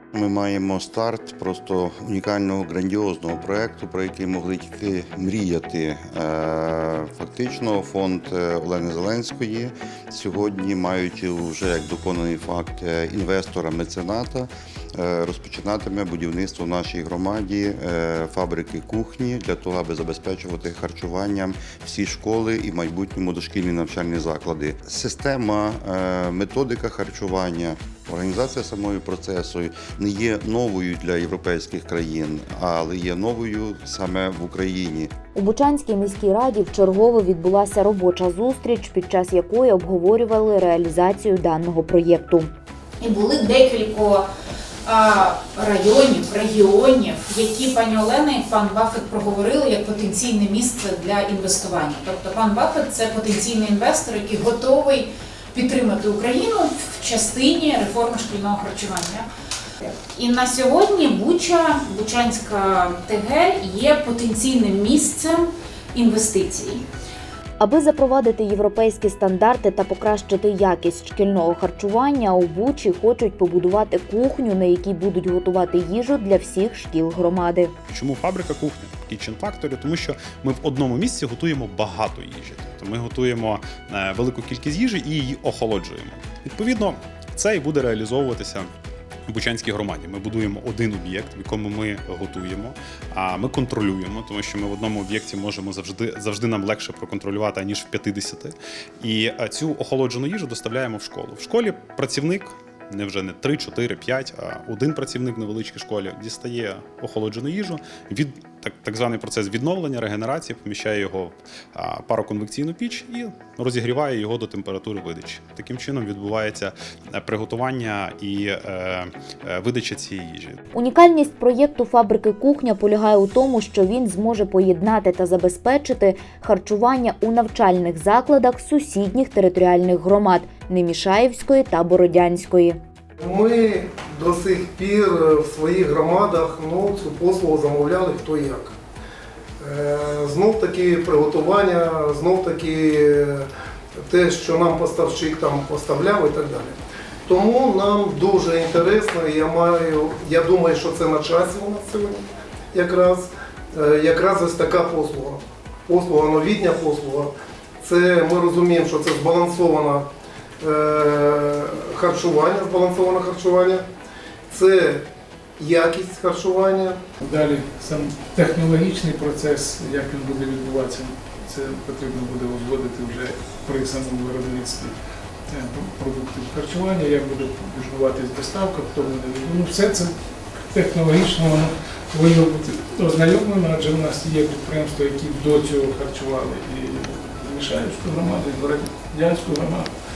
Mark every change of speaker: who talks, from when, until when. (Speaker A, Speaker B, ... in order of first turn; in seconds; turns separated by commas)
Speaker A: 0.1-35.1, Speaker B: 35.3-42.5, Speaker C: 43.0-44.2, Speaker C: 44.8-59.3, Speaker C: 59.8-66.8, Speaker B: 67.6-77.7, Speaker D: 77.9-88.7, Speaker D: 89.3-120.6, Speaker B: 120.7-132.8, Speaker E: 133.2-138.7, Speaker E: 139.6-143.4, Speaker E: 144.1-157.3, Speaker E: 157.8-160.1, Speaker E: 160.6-163.8, Speaker E: 164.5-165.0, Speaker E: 165.6-167.0, Speaker F: 167.2-174.9, Speaker F: 175.5-189.9